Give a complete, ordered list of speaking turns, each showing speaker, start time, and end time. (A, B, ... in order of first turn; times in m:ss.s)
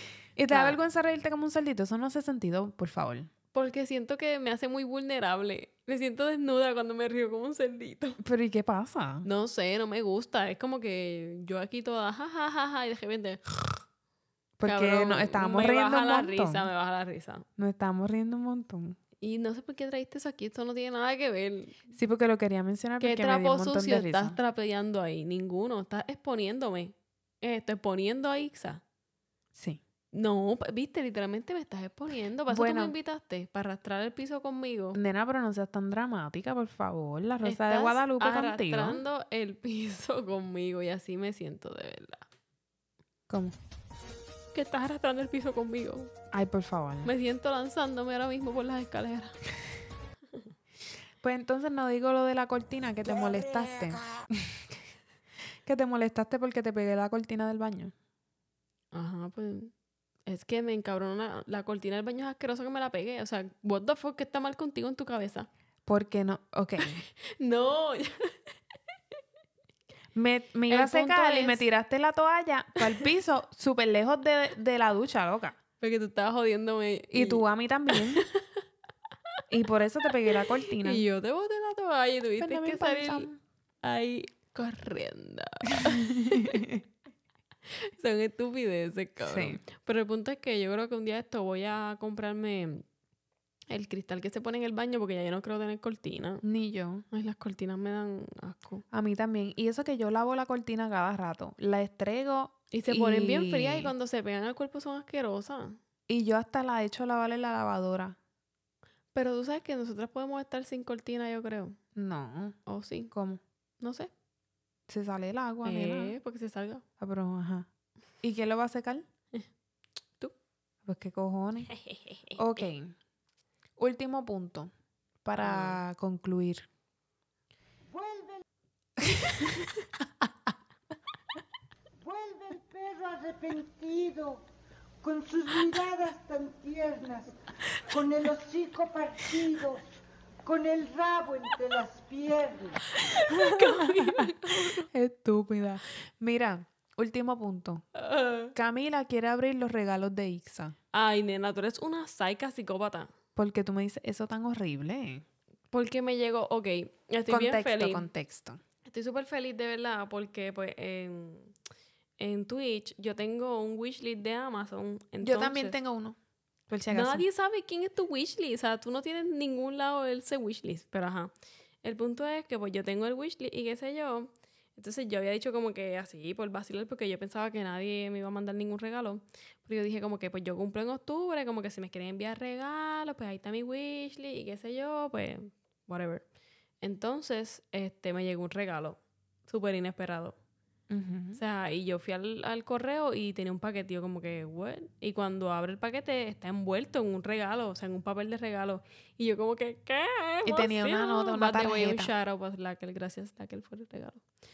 0:00.4-0:03.3 A
0:00.5-0:00.8 B
0:03.5-0:08.2 B
0:08.2-0:09.3 A
0:09.2-0:13.8 B
0:14.6-0:16.7 A
0:14.7-0:17.4 B
0:17.6-0:19.0 A
0:19.2-0:21.8 B
0:21.9-0:24.4 A
0:23.0-0:28.8 B
0:29.6-0:29.8 A
0:30.1-0:35.0 B
0:32.5-0:32.9 A
0:35.0-0:39.0 A
0:37.4-0:42.3 B
0:43.3-0:43.6 A
0:44.5-0:46.1 B
0:46.3-0:47.1 A
0:47.0-0:49.4 B
0:51.2-0:54.6 A
0:55.6-0:57.9 A
0:58.9-0:59.7 B
1:00.3-1:05.5 B
1:05.9-1:07.0 A
1:07.2-1:08.4 B
1:10.2-1:15.6 A
1:10.7-1:11.6 B
1:15.8-1:18.2 B
1:17.1-1:18.2 A
1:19.5-1:21.0 A
1:20.8-1:23.3 B
1:22.4-1:23.4 A
1:23.8-1:26.6 B
1:25.8-1:26.8 A
1:27.8-1:32.8 B
1:29.2-1:29.6 A
1:33.7-1:36.4 B
1:36.4-1:37.0 A
1:37.1-1:38.8 B
1:38.9-1:43.9 A
1:42.7-1:45.8 B
1:46.1-1:48.2 A
1:49.1-1:51.8 B
1:52.0-1:52.6 A
1:52.7-1:53.1 B
1:53.1-1:53.4 A
1:53.8-1:54.1 B
1:54.9-1:56.2 A
1:55.6-1:56.8 B
1:57.0-1:57.7 A
1:58.2-1:59.0 A
2:00.8-2:01.7 A
2:01.8-2:02.4 B
2:02.4-2:03.0 A
2:03.8-2:04.7 A
2:05.2-2:06.7 A
2:05.4-2:05.8 B
2:07.9-2:08.4 C
2:12.0-2:14.4 C
2:15.0-2:17.4 C
2:17.9-2:19.8 C
2:20.4-2:22.8 C
2:22.9-2:24.9 B
2:23.3-2:27.8 A
2:28.0-2:28.5 B
2:28.6-2:30.8 A
2:30.9-2:33.1 B
2:33.4-2:35.2 A
2:35.7-2:38.1 B
2:37.3-2:38.6 A
2:38.9-2:41.5 B
2:42.2-2:45.8 B
2:45.2-2:46.2 A
2:46.7-2:47.2 A
2:46.9-2:51.3 B
2:51.8-3:06.2 B
3:06.8-3:10.4 B
3:10.9-3:11.4 A
3:11.3-3:24.2 B
3:20.5-3:22.1 A